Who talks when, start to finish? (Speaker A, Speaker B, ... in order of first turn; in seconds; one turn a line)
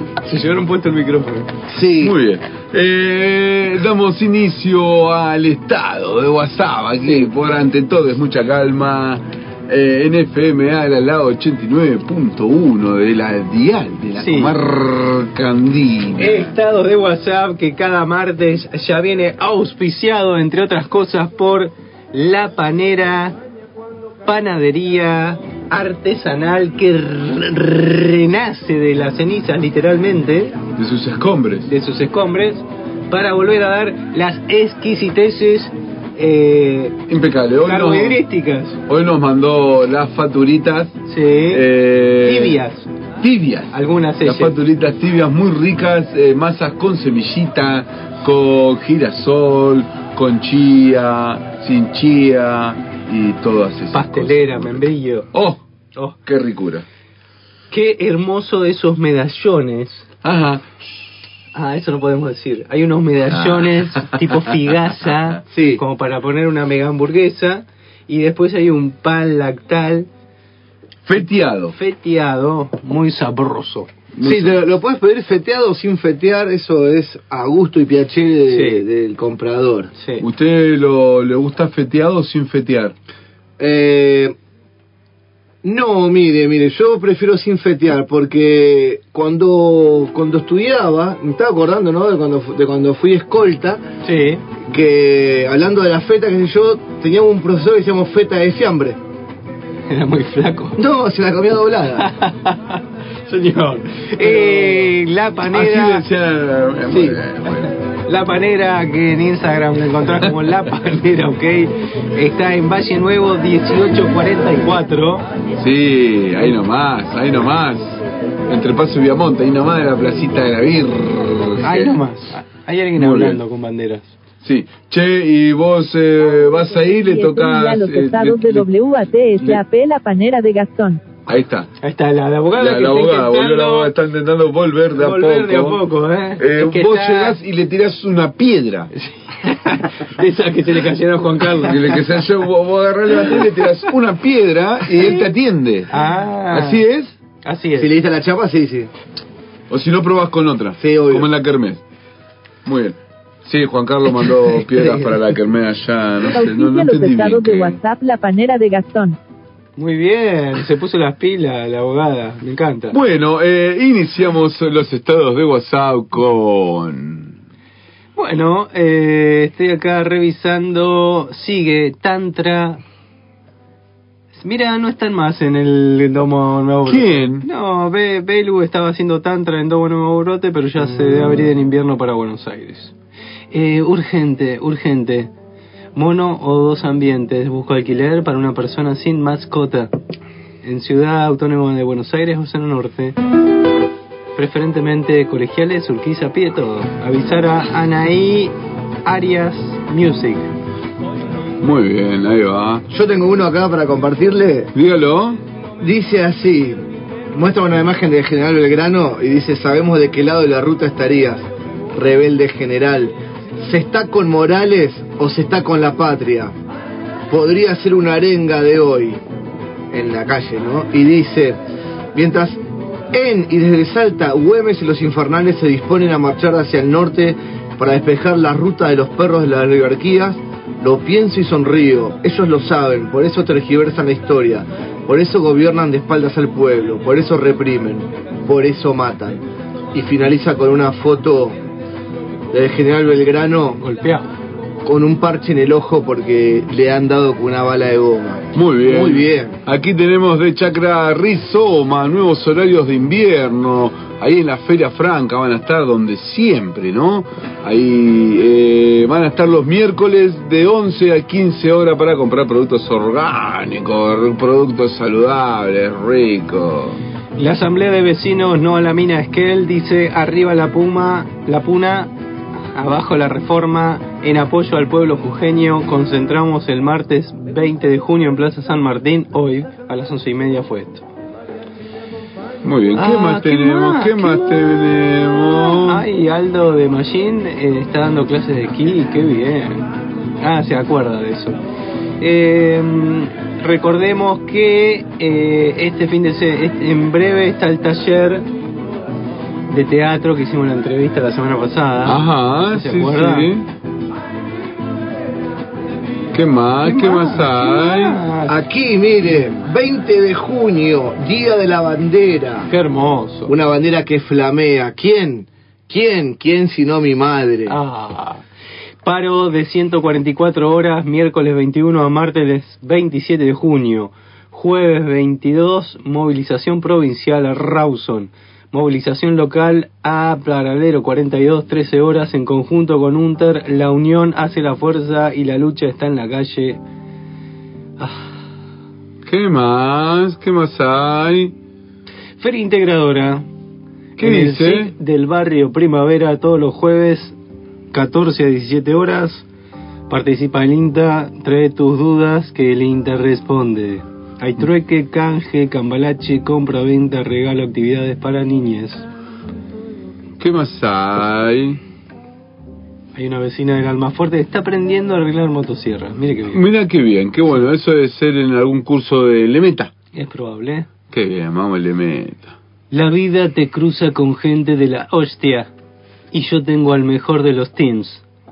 Speaker A: 0.2-1.5
Speaker B: 1.7-2.1
Speaker C: 2.0-16.5
Speaker A: 14.2-14.5
Speaker A: 16.2-23.4
Speaker A: 24.2-30.6
Speaker C: 30.8-31.7
Speaker A: 31.6-37.0
Speaker C: 37.1-38.2
Speaker A: 37.6-38.8
Speaker C: 38.9-41.0
Speaker A: 41.1-42.9
Speaker C: 41.5-42.6
Speaker C: 43.2-55.6
Speaker A: 43.7-44.5
Speaker A: 53.9-55.3
Speaker C: 56.2-56.9
Speaker A: 57.7-60.1
Speaker C: 60.2-60.6
Speaker A: 61.5-70.1
Speaker C: 63.4-64.4
Speaker B: 65.5-65.8
Speaker C: 71.0-71.7
Speaker A: 71.7-73.9
Speaker C: 74.1-74.7
Speaker B: 74.2-79.9
Speaker A: 78.5-78.8
Speaker A: 80.0-80.2
Speaker C: 80.2-82.9
Speaker B: 83.6-84.3
Speaker B: 85.6-93.8
Speaker A: 94.0-94.4
Speaker B: 94.6-99.0
Speaker A: 99.9-100.8
Speaker B: 100.8-102.1
Speaker A: 102.0-106.0
Speaker C: 105.5-107.7
Speaker A: 106.9-107.2
Speaker A: 108.1-115.2
Speaker C: 110.2-110.5
Speaker C: 115.6-122.0
Speaker A: 121.6-124.1
Speaker C: 123.0-123.4
Speaker C: 124.4-128.7
Speaker D: 126.9-131.0
Speaker C: 131.3-131.7
Speaker A: 131.8-133.9
Speaker C: 132.5-135.8
Speaker A: 134.9-137.4
Speaker C: 136.4-138.9
Speaker A: 139.0-142.1
Speaker C: 141.6-147.1
Speaker A: 145.9-146.8
Speaker A: 147.4-147.9
Speaker B: 147.8-148.9
Speaker C: 149.7-151.8
Speaker B: 150.8-151.3
Speaker C: 152.6-157.8
Speaker D: 156.3-159.2
Speaker A: 159.8-162.9
Speaker C: 162.9-167.4
Speaker A: 168.2-172.8
Speaker A: 174.4-182.9
Speaker C: 176.8-177.4
Speaker A: 183.5-185.3
Speaker A: 185.9-189.9
Speaker A: 190.6-193.2
Speaker A: 194.3-198.5
Speaker A: 199.0-200.5
Speaker C: 201.6-202.8
Speaker B: 202.9-204.7
Speaker C: 204.7-205.4
Speaker B: 205.8-206.8
Speaker B: 207.3-216.5
Speaker B: 217.3-219.2
Speaker B: 219.9-221.6
Speaker B: 222.1-222.6
Speaker B: 223.1-239.4
Speaker B: 239.9-241.6
Speaker B: 242.5-243.8
Speaker A: 243.8-244.3
Speaker B: 244.8-249.6
Speaker C: 248.5-267.0
Speaker A: 267.4-272.1
Speaker A: 272.7-281.1
Speaker C: 282.6-286.0
Speaker A: 282.9-289.8
Speaker A: 290.4-291.6
Speaker A: 292.2-298.4
Speaker A: 299.7-303.5
Speaker C: 302.0-303.7
Speaker C: 306.3-308.2
Speaker A: 306.8-308.6
Speaker B: 308.5-312.7
Speaker A: 312.7-313.5
Speaker B: 313.5-317.8
Speaker A: 317.7-318.4
Speaker A: 319.0-336.8
Speaker A: 338.0-338.3
Speaker C: 339.2-341.5
Speaker A: 342.4-343.4
Speaker A: 344.2-347.4
Speaker C: 344.2-344.9
Speaker A: 347.9-349.4
Speaker A: 350.1-359.0
Speaker C: 360.4-361.8
Speaker A: 363.1-366.6
Speaker C: 366.5-369.9
Speaker A: 370.1-370.9
Speaker C: 371.1-372.6
Speaker A: 372.9-375.7
Speaker A: 376.3-378.2